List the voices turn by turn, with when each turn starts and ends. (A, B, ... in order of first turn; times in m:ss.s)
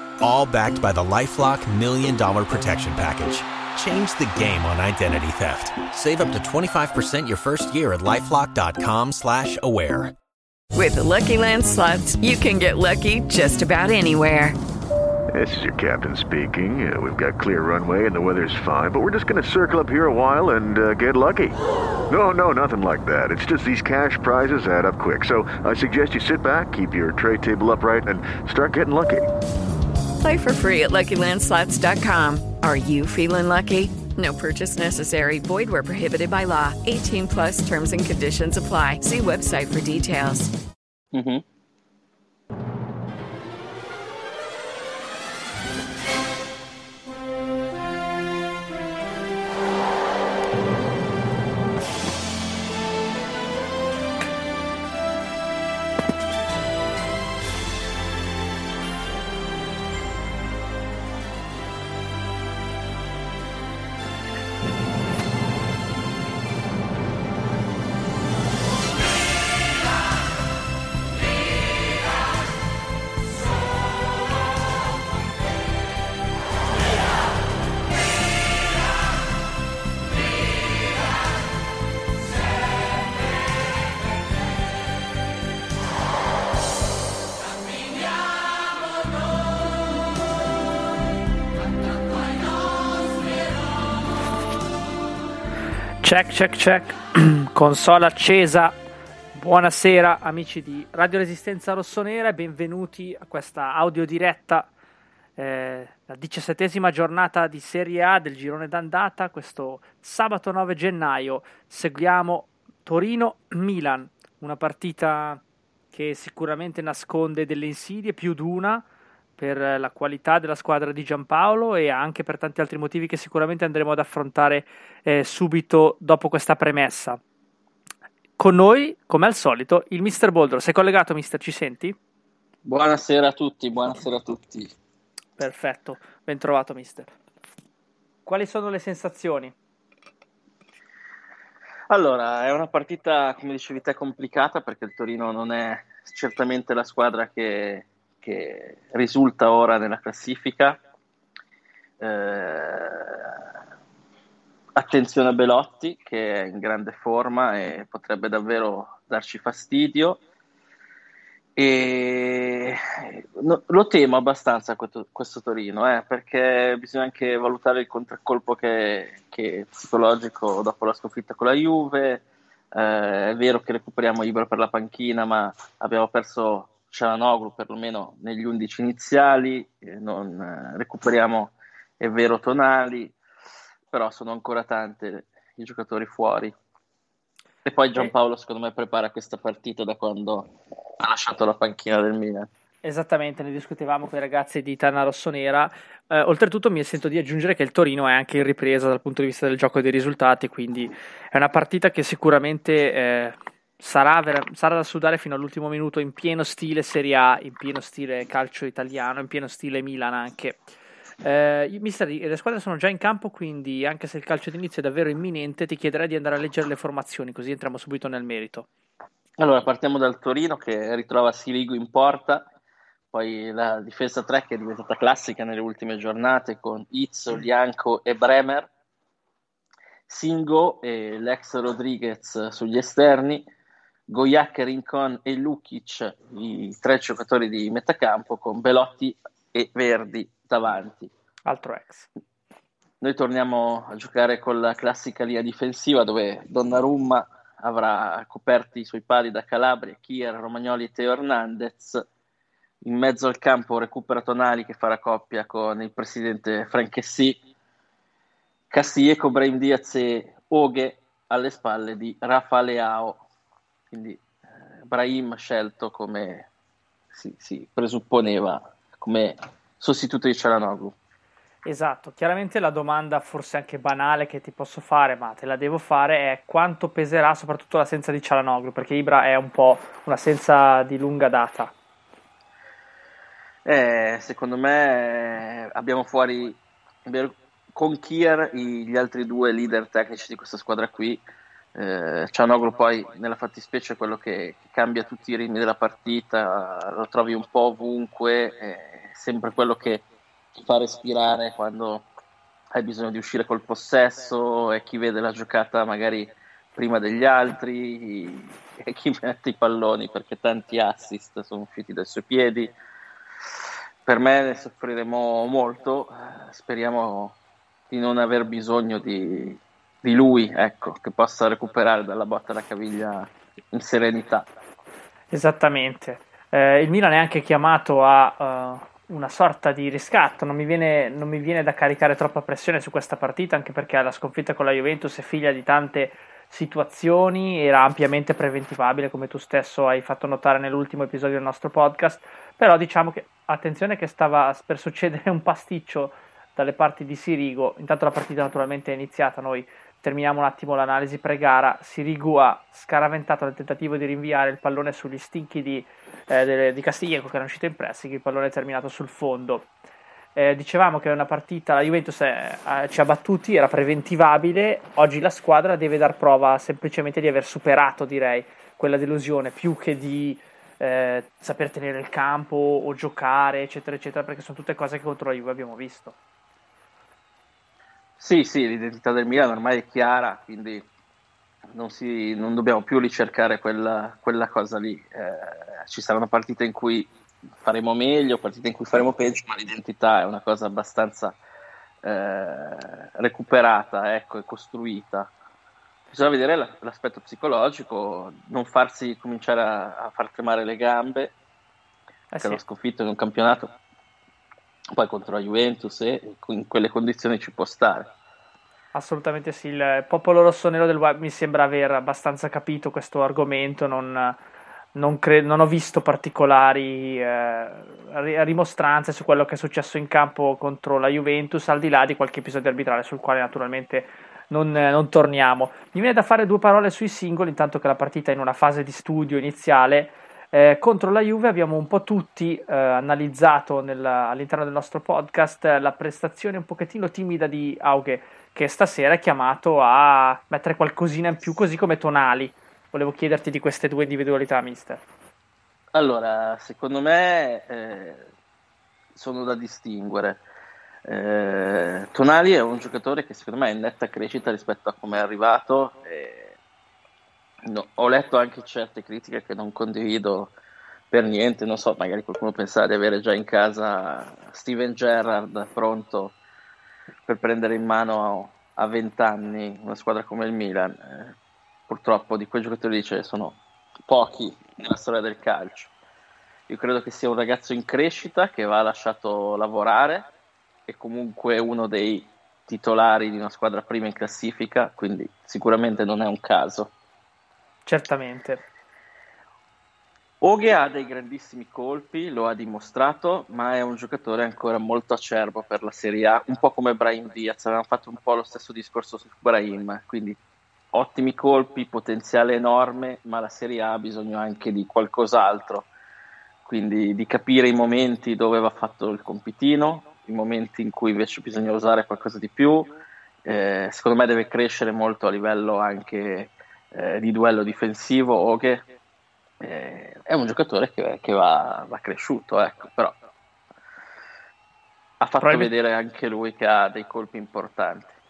0:00.2-0:10.1 A
0:10.7-0:14.6 B
0:15.3-0:21.6 C
0:22.1-0:29.3 C
0:30.2-0:40.5 B
0:41.1-0:41.4 D
1:36.0-1:38.7 E
1:39.3-1:44.7 E
1:45.4-1:55.4 E
1:55.9-1:58.8 E
1:59.4-2:07.2 E
2:08.4-2:12.0 E
2:12.6-2:14.7 D
2:15.4-2:17.1 E
2:18.2-2:19.5 E
2:21.9-2:30.8 D
2:32.0-2:33.4 D
2:34.8-2:40.2 D
2:41.6-3:03.1 D
3:03.9-3:06.5 D
3:07.6-3:12.5 D
3:12.8-3:30.7 E
3:31.2-3:38.7 E
3:39.4-3:42.5 D
3:43.1-3:48.7 D
3:50.1-3:53.4 D
3:54.1-4:01.1 D
4:01.4-4:02.1 E
4:03.0-4:12.0 D
4:12.8-4:17.4 D
4:18.7-4:23.2 D
4:23.9-4:24.2 D
4:24.8-4:26.5 D
4:27.1-4:31.0 D
4:31.6-4:41.7 E
4:43.6-4:51.2 D
4:51.7-5:02.1 D
5:02.7-5:12.7 D
5:14.0-5:17.4 D
5:17.9-5:24.5 D
5:25.3-5:59.7 E
6:00.3-6:16.2 E
6:18.2-6:20.9 D
6:21.7-6:27.1 D
6:27.6-6:31.4 D
6:32.0-6:35.3 D
6:36.1-6:41.3 D
6:42.3-6:42.6 E
6:42.4-6:43.7 D
6:44.9-6:48.1 D
6:48.9-6:54.4 E
6:54.9-7:25.0 E
7:25.9-7:28.3 D
7:29.1-7:30.4 D
7:31.0-7:36.6 D
7:37.6-7:40.5 D
7:41.1-7:46.4 D
7:47.2-7:51.3 D
7:51.9-7:55.9 D
7:56.7-8:00.3 D
8:00.9-8:06.9 D
8:07.8-8:08.6 E
8:10.4-8:20.4 D
8:20.9-8:25.9 D
8:26.6-8:38.8 D
8:39.6-8:43.2 D
8:45.2-8:48.1 D
8:45.4-8:45.7 E